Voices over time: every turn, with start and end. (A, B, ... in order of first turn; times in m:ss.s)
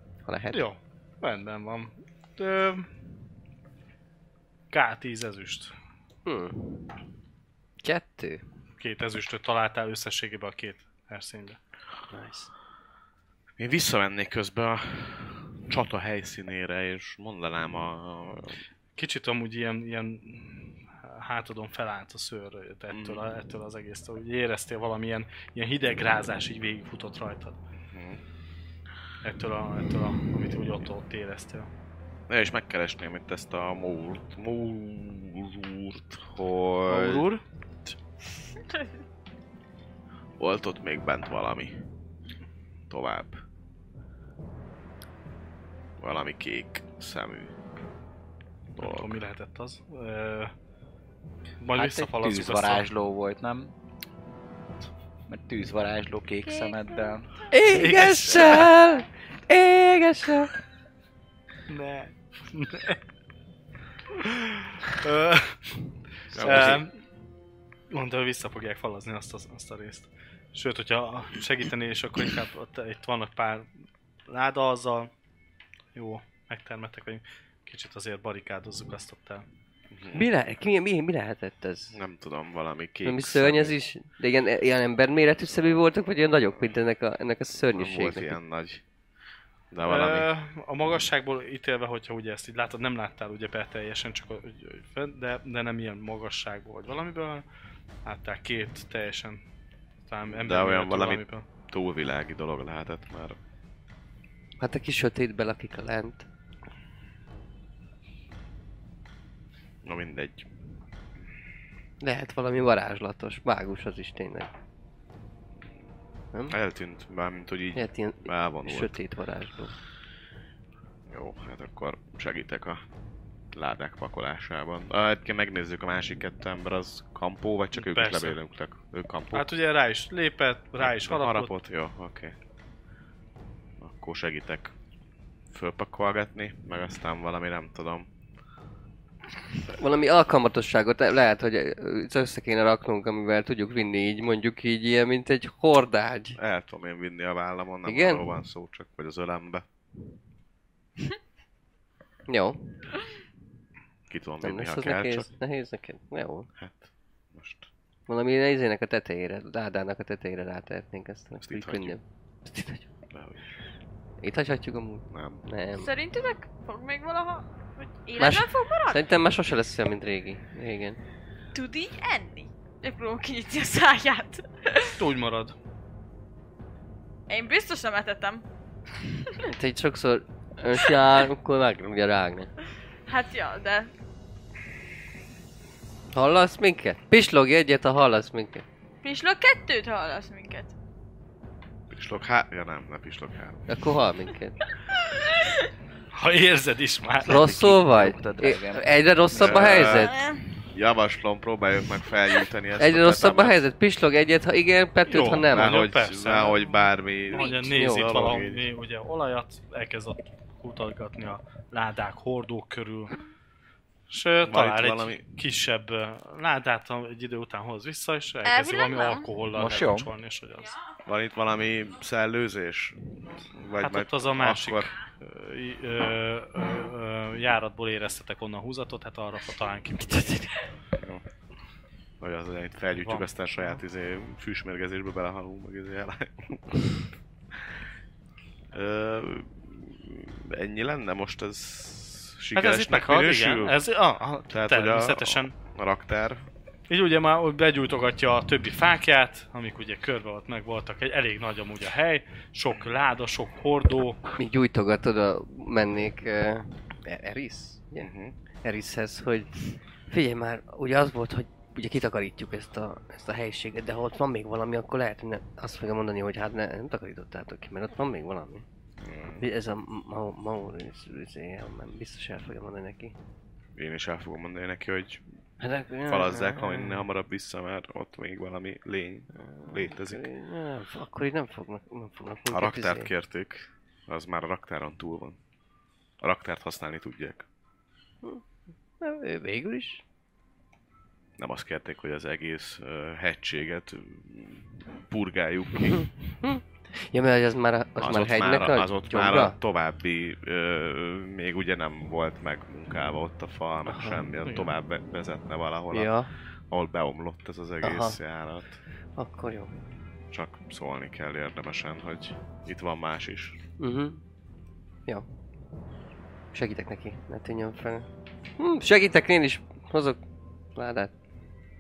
0:00.3-0:00.6 A
0:00.5-0:02.9 B
0:04.7-0:05.7 B
0:06.2-0:06.9 A
0:07.8-0:08.4 A
0:08.8-0:11.6 B
0:12.1-0:12.5 A
0:13.6-0:18.6 C
0:19.0-0:27.6 B
0:22.9-0:23.2 C
0:27.9-0:28.2 C
0:29.2-0:31.7 B
0:32.3-0:37.3 C
0:36.9-0:37.4 B
0:38.6-0:38.9 D
0:40.4-0:41.8 C
0:42.9-0:43.4 C
0:46.0-0:47.5 C
0:48.8-0:49.2 C
0:48.8-0:50.5 B
0:51.6-0:52.9 B
0:51.8-0:53.7 E
0:55.3-0:57.3 E
0:56.4-0:57.2 D
0:57.5-1:00.5 A
0:57.7-0:58.7 B
1:01.7-1:03.0 B
1:04.2-1:05.8 B
1:06.3-1:06.8 C
1:06.3-1:07.0 B
1:07.9-1:13.7 B
1:14.3-1:15.1 B
1:16.0-1:19.4 B
1:19.9-1:20.3 C
1:20.1-1:22.0 A
1:21.9-1:23.8 C
1:23.0-1:28.4 A
1:27.7-1:28.8 C
1:29.7-1:30.3 C
1:29.8-1:37.4 B
1:38.0-1:39.4 B
1:40.0-1:41.4 B
1:40.3-1:43.4 C
1:44.6-1:46.3 A
1:49.8-1:50.5 C
1:52.0-1:54.5 A
1:56.5-1:59.0 C
1:57.8-1:59.8 A
2:01.1-2:02.8 C
2:03.5-2:09.5 C
2:07.7-2:08.4 B
2:09.3-2:11.6 B
2:10.8-2:12.3 C
2:13.8-2:14.7 C
2:15.5-2:18.1 C
2:19.8-2:26.4 A
2:26.4-2:29.6 C
2:27.8-2:28.3 A
2:32.3-2:32.8 A
2:34.1-2:35.3 C
2:34.4-2:36.5 A
2:36.6-2:37.7 C
2:38.1-2:42.8 A
2:41.4-2:42.0 C
2:43.1-2:43.4 C
2:44.2-2:45.9 A
2:45.1-2:45.4 C
2:45.8-2:49.0 D
2:48.2-2:51.0 A
2:51.5-2:55.0 D
2:55.0-2:55.5 B
2:57.3-2:58.4 D
2:59.1-2:59.5 D
2:59.5-3:02.5 A
3:03.1-3:03.9 D
3:06.1-3:08.6 A
3:09.0-3:10.7 D
3:11.9-3:13.7 C
3:13.7-3:14.6 A
3:15.0-3:15.7 D
3:16.1-3:17.5 B
3:17.3-3:20.2 A
3:17.3-3:18.9 E
3:19.3-3:20.1 C
3:19.8-3:20.4 D
3:20.6-3:23.6 C
3:22.8-3:25.8 A
3:25.1-3:26.7 B
3:25.2-3:28.7 C
3:27.3-3:33.2 B
3:27.3-3:27.7 D
3:27.7-3:28.1 A
3:34.1-3:40.8 B
3:34.4-3:35.2 C
3:38.4-3:39.3 D
3:39.5-3:40.1 E
3:41.1-3:43.0 C
3:43.5-3:44.9 C
3:43.8-3:50.4 B
3:50.0-3:50.5 A
3:52.2-3:56.8 C
3:53.0-3:53.8 B
3:58.7-4:03.8 C
4:02.6-4:05.5 B
4:04.5-4:06.5 C
4:06.9-4:14.2 B
4:14.4-4:18.1 A
4:18.0-4:18.3 C
4:18.6-4:28.6 A
4:29.0-4:29.5 C
4:29.4-4:33.2 A
4:33.8-4:35.2 C
4:35.6-4:37.1 A
4:36.1-4:40.2 C
4:39.4-4:43.1 A
4:42.5-4:45.4 C
4:46.2-4:47.5 C
4:49.0-4:50.0 A
4:51.4-4:56.1 C
4:56.4-4:59.6 A
4:58.0-5:06.1 C
5:04.4-5:04.7 B
5:05.9-5:06.3 A
5:06.7-5:08.8 C
5:07.8-5:08.2 A
5:09.2-5:09.8 A
5:10.3-5:13.6 C
5:13.8-5:14.2 A
5:16.5-5:20.2 A
5:20.8-5:21.1 A